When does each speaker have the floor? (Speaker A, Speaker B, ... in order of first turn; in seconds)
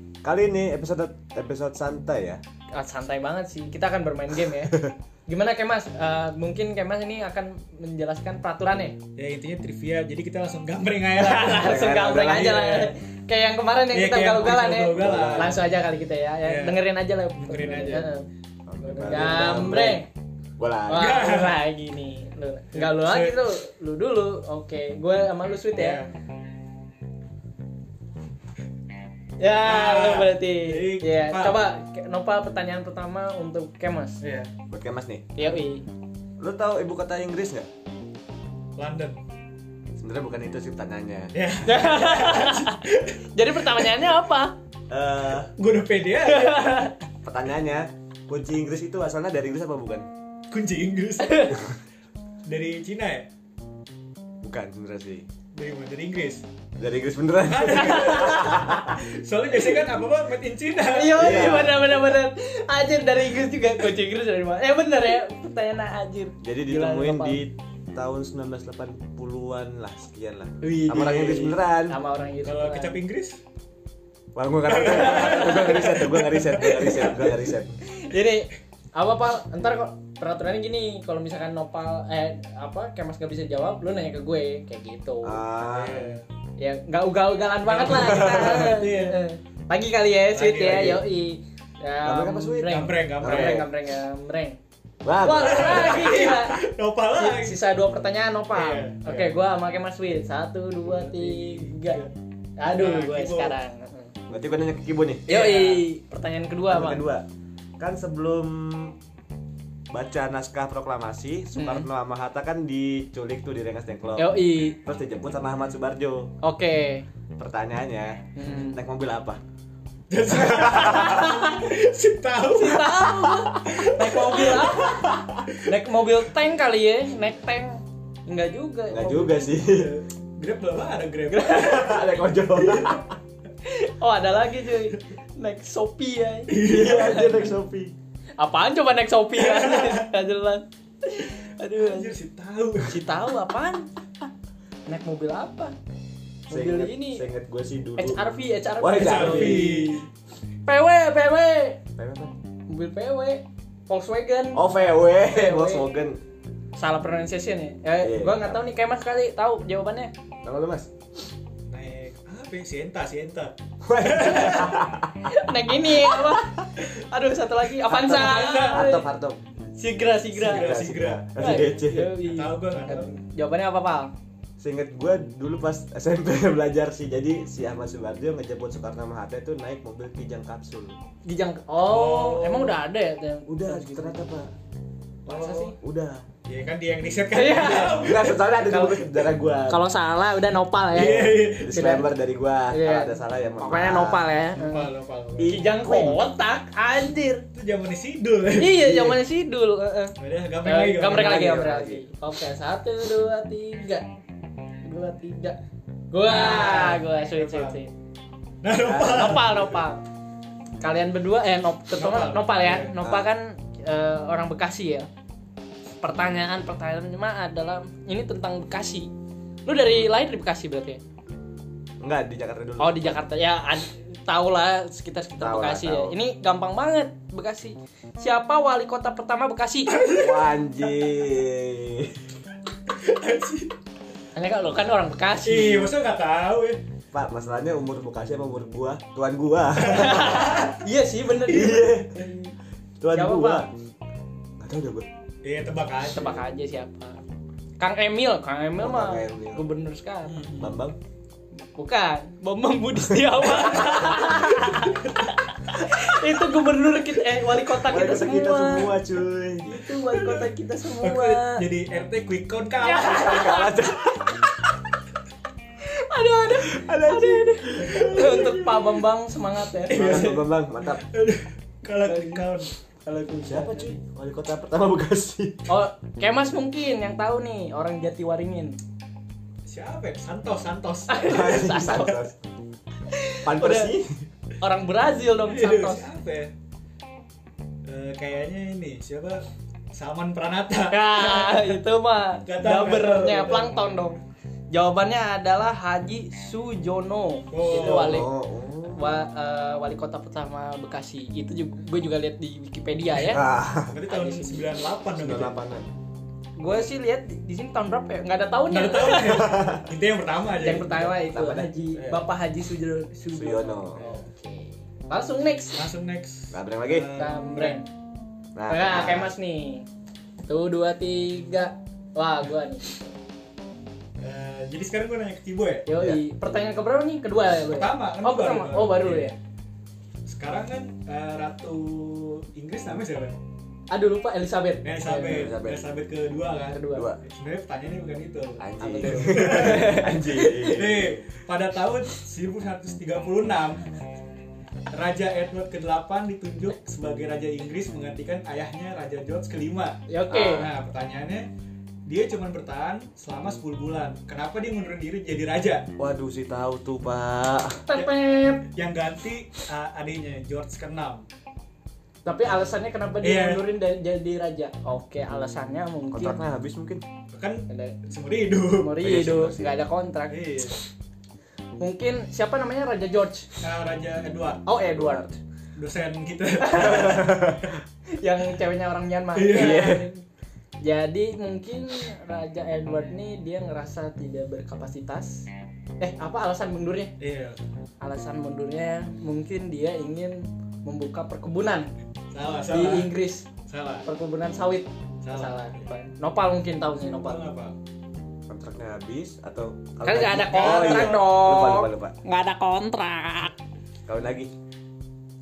Speaker A: 0.2-2.4, 11.6-12.6, 14.9-15.6, 18.7-20.1, 20.6-21.3, 34.7-35.6, 36.4-37.7, 40.0-41.3, 44.9-45.5, 47.2-50.1, 54.4-55.3, 56.8-59.0, 61.1-61.8, 66.4-72.0, 74.3-77.8, 85.2-86.2, 92.0-93.7, 95.0-96.2, 104.3-105.4, 106.7-107.3, 107.8-109.0, 109.9-116.3, 117.4-118.2, 118.7-119.4, 120.3-121.3, 123.0-123.6, 124.6-125.5, 128.9-129.9, 131.4-133.2, 136.6-137.9, 146.5-148.2, 148.8-149.7, 152.0-152.3, 154.5-156.2, 158.0-158.6, 160.4-160.9, 163.8-165.1, 166.1-166.5, 167.9-169.4, 170.4-172.2, 174.6-181.0, 183.5-184.5, 185.8-186.2, 187.8-189.8, 191.5-194.2, 195.4-196.2, 201.1-202.0, 213.0-213.3, 222.0-223.2, 225.4-226.2, 230.2-232.2, 237.1-240.7, 241.4-242.2, 243.0-243.7, 244.6-245.1, 248.8-249.7, 250.6-251.0, 257.8-259.7, 263.1-264.6, 266.5-268.6, 269.9-271.0, 273.5-275.7, 281.3-282.4, 283.4-284.2, 297.7-299.2, 303.2-304.0, 305.1-305.9, 309.3-309.9, 310.9-312.2, 313.3-314.0, 316.5-317.1, 318.6-319.3, 326.0-326.2, 335.2-335.9, 336.9-337.2, 338.6-341.2, 350.3-350.6, 356.0-357.9, 366.1-367.0, 369.0-369.8, 374.8-375.4, 376.8-377.8, 379.5-380.1, 398.5-402.2, 404.1-404.5
Speaker B: 2.7-9.0, 11.2-18.2, 18.8-20.1, 20.9-26.0, 29.4-34.2, 35.4-35.9, 41.6-42.8, 43.3-44.5, 46.2-46.9, 51.2-51.6, 58.0-58.2, 60.8-67.4, 70.6-73.0, 75.0-76.0, 76.7-77.3, 78.0-85.4, 86.6-94.6, 95.2-96.6, 97.2-102.0, 102.6-104.1, 105.3-107.0, 111.5-111.9, 114.2-114.8, 116.4-117.1, 118.4-118.8, 120.8-121.6, 122.5-129.4, 131.3-132.1, 133.6-137.5, 138.4-142.1, 142.8-143.9, 144.9-145.8, 146.5-147.2, 148.0-150.1, 150.7-151.8, 152.7-155.9, 156.8-160.1, 165.2-169.1, 169.8-170.8, 171.4-174.1, 181.2-184.2, 185.3-185.8, 187.3-192.1, 192.7-197.4, 198.5-204.1, 204.8-205.6, 206.1-207.9, 208.8-210.0, 210.8-215.1, 216.0-219.1, 219.7-221.0, 222.8-230.0, 234.3-235.9, 239.9-242.5, 243.1-243.7, 246.1-247.2, 247.8-250.4, 251.8-259.0, 259.6-261.6, 262.8-264.0, 265.8-270.4, 272.0-272.5, 273.1-274.0, 275.7-278.8, 281.1-282.2, 283.1-283.9, 284.6-286.1, 290.9-294.2, 294.7-298.3, 298.9-303.4, 304.1-304.6, 306.6-309.7, 310.6-315.9, 317.2-317.9, 318.7-319.9, 320.4-323.1, 325.9-329.4, 333.9-335.5, 336.7-337.1, 338.8-340.8, 350.1-350.7, 357.9-358.7, 362.2-366.4, 367.7-368.0, 368.8-370.4, 371.8-373.5, 374.7-375.3, 376.6-377.2, 378.2-380.2, 380.8-385.5, 386.0-387.1, 388.0-391.9, 392.7-393.5, 394.1-397.5, 400.0-403.6
Speaker C: 9.2-11.9, 12.4-12.9, 13.9-15.7, 16.4-18.1, 20.9-21.6, 22.7-23.5, 25.7-26.1, 29.6-31.6, 34.2-34.5, 38.8-39.2, 41.3-44.0, 45.6-46.9, 50.5-51.7, 52.5-53.3, 55.5-56.4, 57.5-61.6, 72.4-73.4, 74.7-77.1, 85.6-86.3, 87.6-89.2, 90.3-91.0, 92.6-93.7, 95.4-97.6, 98.5-99.4, 100.8-102.1, 102.6-103.6, 105.3-105.9, 120.1-123.0, 123.7-124.8, 129.7-131.5, 132.6-132.9, 136.5-137.4, 139.4-140.1, 141.8-143.1, 148.9-150.1, 161.7-164.9, 167.9-168.9, 170.3-171.6, 172.2-173.2, 181.8-182.8, 185.3-185.8, 186.4-188.4, 190.9-191.8, 194.6-195.6, 197.5-199.2, 200.2-201.5, 206.2-207.8, 208.6-209.8, 211.9-212.9, 229.9-230.6, 232.9-233.7, 235.4-236.8, 239.8-240.8, 245.4-246.5, 250.2-250.8, 253.7-254.0, 260.0-263.6, 267.8-269.0, 269.8-272.7, 279.7-281.4, 285.4-286.5, 287.9-291.8, 292.4-293.8, 297.5-298.2, 303.9-305.6, 308.7-311.2, 314.0-314.2, 315.7-317.9, 324.2-325.9, 327.6-329.3, 330.3-333.4, 334.8-343.9, 344.9-351.5, 352.1-355.9, 357.9-361.3, 363.2-363.7, 367.3-369.0, 370.3-370.8, 373.6-374.6, 375.8-377.7, 379.4-380.0, 387.2-387.6, 392.3-393.1, 393.7-394.1, 395.2-395.9, 397.0-397.8, 400.4-401.3